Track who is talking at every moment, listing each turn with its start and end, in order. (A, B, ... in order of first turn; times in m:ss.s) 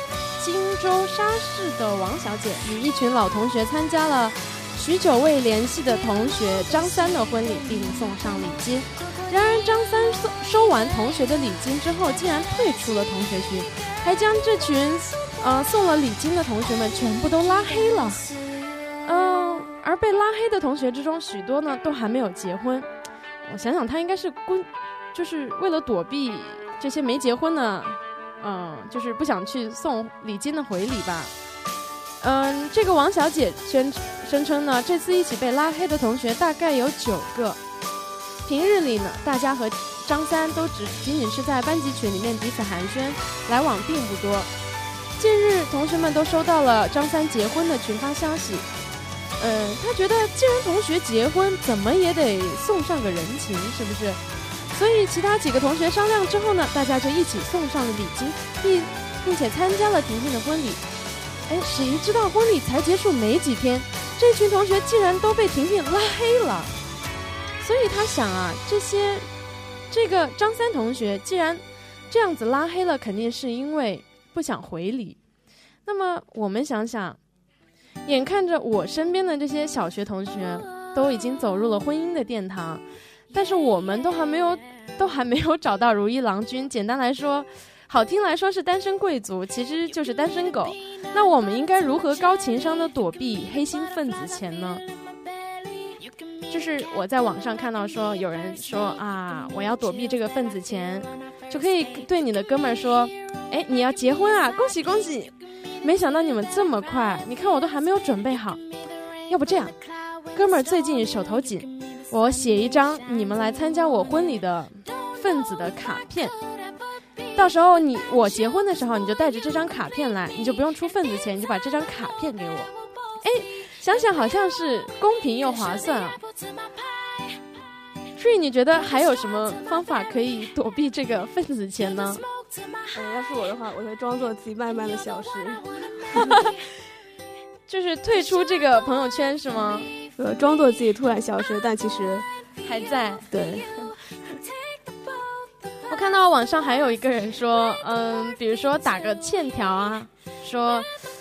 0:00.4-0:18.3 A
0:19.0-0:22.9 A
0:23.4-0:31.3 A
0:32.2-0:37.6 A
0:38.5-0:44.5 A
0:45.2-0:48.7 A
0:49.4-0:54.2 A
0:54.7-1:00.8 A
1:01.5-1:06.7 A
1:07.6-1:09.3 A
1:09.9-1:15.2 A
1:15.9-1:17.2 A
1:18.1-1:34.8 A
1:36.5-1:48.6 A
1:49.3-1:49.7 A
1:50.3-1:56.4 A
1:57.4-2:02.7 A
2:03.2-2:06.2 A
2:08.2-2:12.2 A
2:12.9-2:16.4 B
2:16.1-2:16.6 A
2:17.7-2:19.9 A
2:20.2-2:22.3 B
2:22.6-2:23.3 A
2:23.3-2:23.7 B
2:25.9-2:30.9 A